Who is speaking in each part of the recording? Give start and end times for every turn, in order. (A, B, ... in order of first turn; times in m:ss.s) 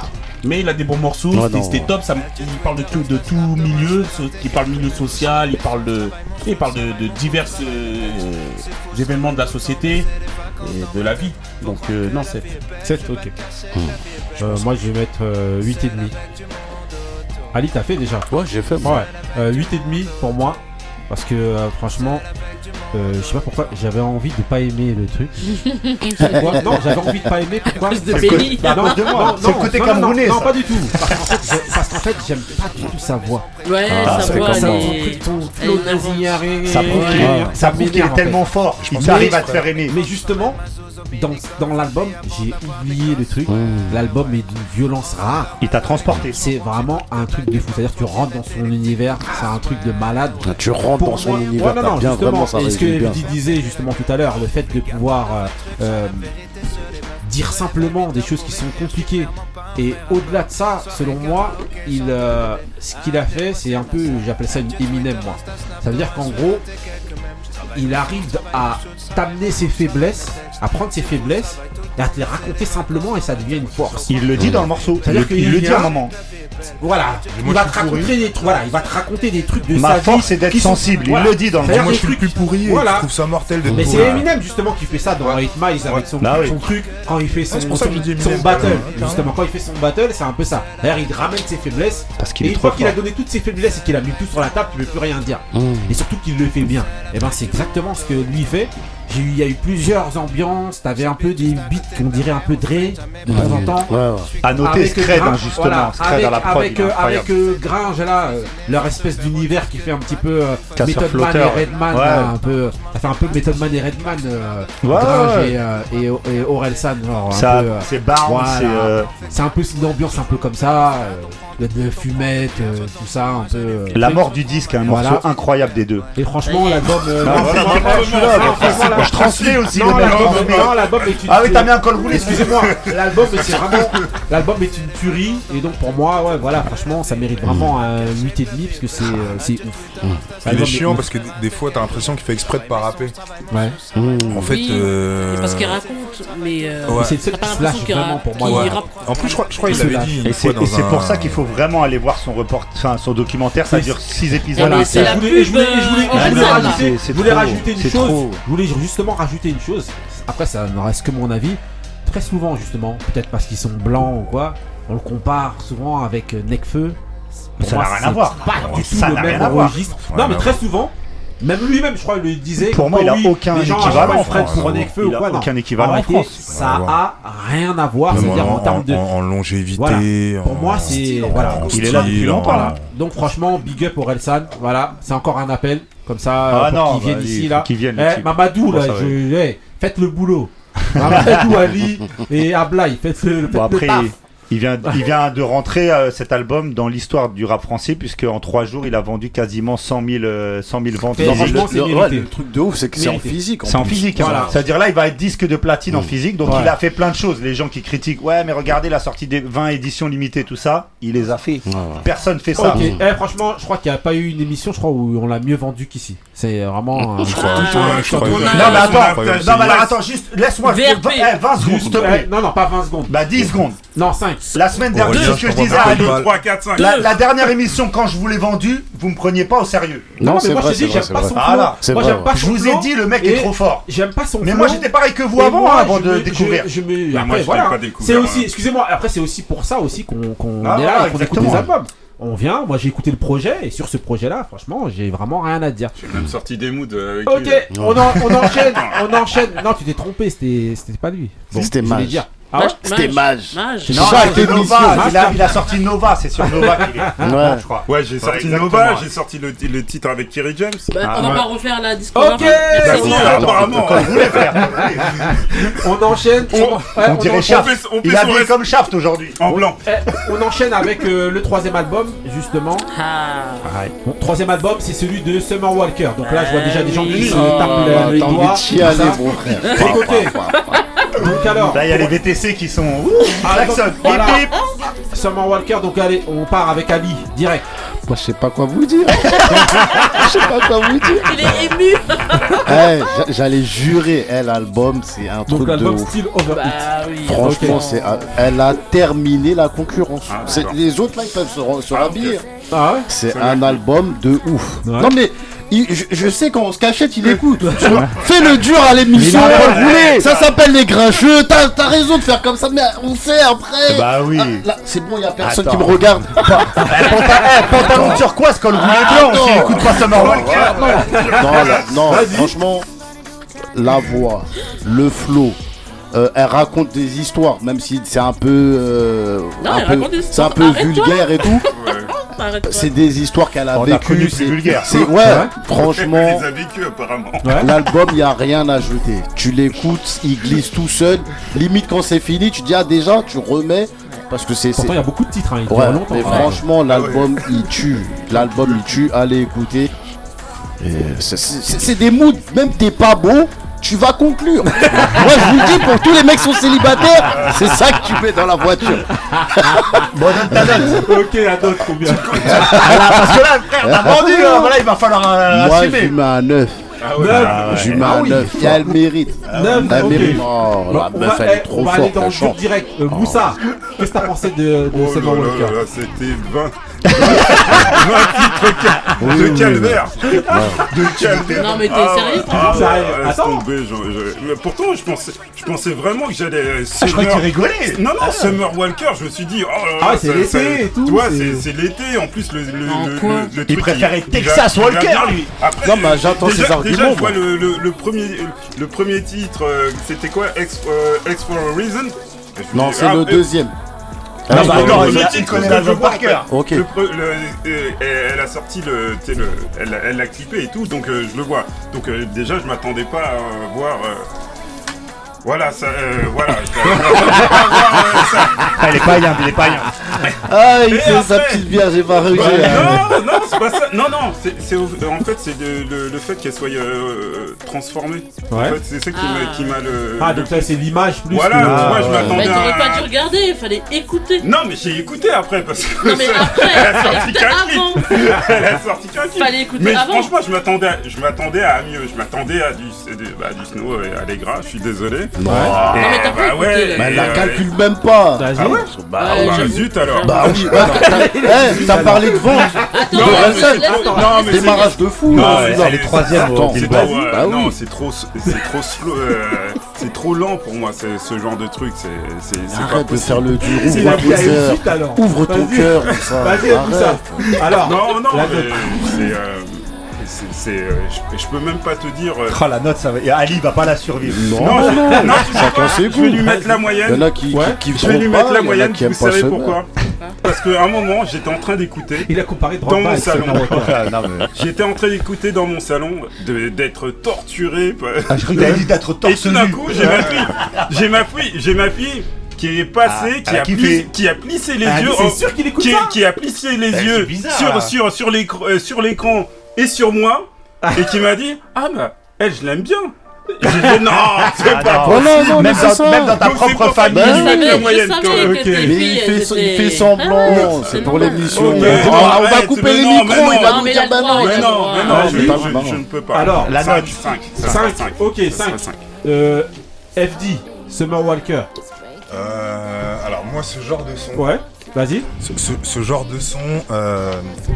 0:00.4-0:10.1 A
0:01.3-0:01.9 B
0:10.6-0:12.6 A
0:12.8-0:13.3 C
0:14.4-0:16.1 C
0:17.5-0:18.3 C
0:18.3-0:19.0 B
0:18.8-0:22.2 C
0:22.9-0:25.4 C
0:25.5-0:26.3 D
0:26.2-0:27.2 B
0:26.2-0:33.5 C
0:27.8-0:29.2 D
0:28.1-0:31.1 E
0:33.6-0:37.3 D
0:33.9-0:34.9 B
0:34.0-0:40.6 C
0:34.1-0:34.4 E
0:36.7-0:40.0 E
0:38.8-0:39.6 F
0:41.1-0:45.6 C
0:43.5-0:44.0 B
0:45.6-0:46.4 E
0:46.3-0:50.5 C
0:50.4-0:53.3 B
0:51.0-0:56.3 C
0:57.2-1:06.6 C
1:07.8-1:14.1 C
1:14.1-1:16.1 E
1:15.0-1:15.9 C
1:16.8-1:23.1 C
1:17.3-1:18.2 F
1:19.8-1:22.2 E
1:21.6-1:24.3 F
1:23.7-1:44.0 C
1:25.3-1:26.0 F
1:26.2-1:26.6 E
1:27.5-1:29.2 F
1:32.2-1:33.0 E
1:35.5-1:35.9 B
1:43.3-1:44.3 B
1:44.4-1:47.3 E
1:44.6-2:04.3 C
1:50.8-1:52.3 E
1:54.8-1:55.6 E
1:57.3-1:59.1 E
2:03.9-2:06.1 E
2:04.9-2:05.3 C
2:06.2-2:19.8 C
2:06.5-2:07.1 D
2:07.2-2:12.9 E
2:07.3-2:10.6 G
2:13.4-2:14.1 F
2:17.4-2:17.8 B
2:19.0-2:19.4 B
2:20.4-2:21.1 C
2:20.4-2:23.2 F
2:24.0-2:24.5 B
2:24.3-2:25.8 F
2:24.5-2:29.9 D
2:26.8-2:27.2 F
2:26.9-2:28.8 C
2:28.4-2:31.4 F
2:29.6-2:30.2 C
2:30.3-2:35.3 E
2:33.7-2:34.0 C
2:34.6-2:37.0 D
2:34.6-2:47.0 C
2:36.1-2:38.4 E
2:47.6-2:49.9 E
2:47.6-2:59.1 C
2:48.9-2:50.6 F
2:52.7-2:56.4 E
2:53.7-2:54.9 F
2:56.5-2:57.0 F
2:58.1-3:02.8 F
2:58.1-2:58.5 E
2:59.8-3:14.1 C
3:01.1-3:02.8 E
3:06.5-3:09.2 E
3:11.0-3:11.5 E
3:13.5-3:21.7 E
3:21.1-3:22.3 C
3:21.2-3:24.5 B
3:23.0-3:23.4 C
3:23.7-3:32.9 E
3:24.1-3:24.6 C
3:26.4-3:26.7 C
3:31.7-3:32.1 B
3:32.6-3:39.0 C
3:32.7-3:33.0 B
3:37.2-3:39.8 F
3:37.4-3:38.9 D
3:37.6-3:40.0 G
3:38.5-3:42.3 E
3:40.6-3:41.4 D
3:41.6-3:43.2 C
3:43.1-3:43.8 E
3:43.9-3:44.4 C
3:44.5-3:45.5 D
3:44.5-3:46.2 E
3:44.9-3:46.3 F
3:45.6-3:47.1 G
3:46.8-3:50.1 E
3:46.8-3:47.1 D
3:50.2-3:52.3 B
3:50.2-4:05.9 C
3:51.3-3:53.8 E
3:54.4-3:56.7 E
3:57.1-3:58.5 G
4:00.6-4:01.7 E
4:06.0-4:07.7 G
4:07.3-4:12.8 C
4:07.7-4:08.2 B
4:08.5-4:09.2 G
4:11.5-4:12.3 B
4:12.6-4:14.4 D
4:12.8-4:15.2 B
4:13.8-4:15.8 C
4:13.9-4:19.1 E
4:16.4-4:16.9 C
4:17.2-4:17.6 B
4:17.9-4:21.4 G
4:20.9-4:23.4 D
4:21.0-4:21.5 E
4:22.1-4:23.6 C
4:22.8-4:24.6 G
4:22.9-4:25.8 E
4:25.5-4:27.6 C
4:26.5-4:29.4 E
4:27.4-4:28.7 G
4:29.4-4:29.8 G
4:29.5-4:32.9 C
4:32.9-4:33.7 D
4:33.6-4:33.9 E
4:34.0-4:40.4 C
4:36.2-4:38.1 D
4:37.1-4:40.7 B
4:39.6-4:40.0 D
4:40.5-4:41.1 D
4:41.2-4:42.1 C
4:41.7-4:44.6 E
4:43.4-4:44.4 C
4:44.1-4:44.7 D
4:45.1-4:47.6 C
4:48.1-4:51.5 B
4:51.0-4:52.9 D
4:52.6-4:56.2 B
4:55.5-4:56.8 C
4:56.5-4:58.2 D
4:57.2-5:02.4 B
4:57.4-4:57.8 C
5:00.3-5:00.8 G
5:01.9-5:02.4 G
5:02.7-5:03.1 C
5:03.1-5:22.9 B
5:03.3-5:03.8 G
5:04.8-5:05.1 C
5:07.7-5:08.2 E
5:09.1-5:10.5 E
5:09.2-5:09.7 C
5:09.5-5:10.2 G
5:13.9-5:14.6 E
5:15.4-5:21.0 E
5:19.4-5:22.0 G
5:20.6-5:22.5 C
5:23.8-5:25.6 B
5:26.1-5:31.6 B
5:29.6-5:33.0 D
5:31.7-5:32.1 G
5:32.6-5:36.4 B
5:33.7-5:35.2 E
5:35.2-5:35.5 C
5:35.7-5:37.7 G
5:37.4-5:37.7 C
5:37.6-5:45.0 B
5:44.8-5:46.6 C
5:45.7-5:49.9 B
5:46.9-5:47.5 G
5:48.4-5:48.8 G
5:50.8-5:59.1 B
5:57.2-5:57.8 G
5:59.4-6:00.1 C
5:59.6-6:00.0 B
6:00.1-6:01.1 E
6:00.7-6:03.0 C
6:02.3-6:04.8 B
6:02.3-6:06.1 E
6:05.5-6:12.6 B
6:07.0-6:07.5 G
6:07.2-6:15.7 C
6:07.3-6:08.4 E
6:09.7-6:10.2 A
6:13.1-6:13.5 B
6:14.9-6:43.5 G
6:17.5-6:17.8 C
6:18.0-6:19.1 E
6:19.2-6:20.9 B
6:20.9-6:21.9 E
6:21.6-6:22.9 D
6:22.5-6:23.6 C
6:27.0-6:28.0 E
6:28.3-6:28.5 C
6:30.0-6:31.7 C
6:32.9-6:33.5 D
6:33.6-6:35.4 E
6:35.1-6:35.5 A
6:35.8-6:37.4 B
6:42.7-6:43.7 B
6:44.5-6:45.6 B
6:44.5-6:46.5 E
6:44.5-6:54.3 G
6:44.6-6:45.1 C
6:46.5-6:46.9 B
6:55.4-6:59.2 G
6:58.8-6:59.9 E
7:00.4-7:03.2 B
7:00.9-7:01.7 G
7:02.3-7:10.7 G
7:02.3-7:03.0 C
7:08.5-7:08.8 C
7:09.1-7:09.8 D
7:10.2-7:12.3 C
7:11.3-7:13.1 G
7:11.6-7:12.4 E
7:12.1-7:12.4 B
7:12.2-7:14.4 D
7:14.4-7:27.7 G
7:16.0-7:18.3 D
7:19.4-7:20.3 D
7:25.4-7:26.2 B
7:25.5-7:25.7 C
7:25.9-7:27.5 D
7:27.0-7:29.7 B
7:28.4-7:28.8 C
7:29.2-7:30.9 G
7:29.2-7:31.2 D
7:30.2-7:37.8 B
7:30.4-7:34.3 C
7:31.9-7:32.2 E
7:32.9-7:35.0 D
7:33.1-7:44.6 G
7:35.3-7:37.2 E
7:42.7-7:47.5 B
7:43.8-7:49.1 C
7:47.8-7:52.6 G
7:52.5-7:54.9 E
7:54.3-7:59.8 B
7:54.4-7:57.3 G
7:54.8-7:55.3 C
7:57.5-7:57.8 C
7:57.9-7:59.9 G
8:00.4-8:02.3 G
8:02.3-8:03.9 C
8:02.8-8:03.9 G
8:03.3-8:04.5 E
8:04.5-8:25.9 G
8:08.3-8:10.9 E
8:13.1-8:14.1 E
8:14.8-8:16.1 C
8:16.9-8:17.9 E
8:20.8-8:21.1 C
8:24.1-8:27.5 E
8:24.9-8:26.4 B
8:26.4-8:28.7 G
8:27.1-8:27.8 B
8:27.2-8:32.0 D
8:28.4-8:29.0 C
8:28.8-8:36.0 B
8:30.8-8:39.0 G
8:31.6-8:32.4 C
8:33.3-8:35.5 D
8:35.1-8:35.7 C
8:36.3-8:36.7 C
8:36.7-8:37.3 E
8:37.6-8:41.7 C
8:42.3-8:44.5 F
8:44.4-8:45.3 C
8:45.4-8:47.5 F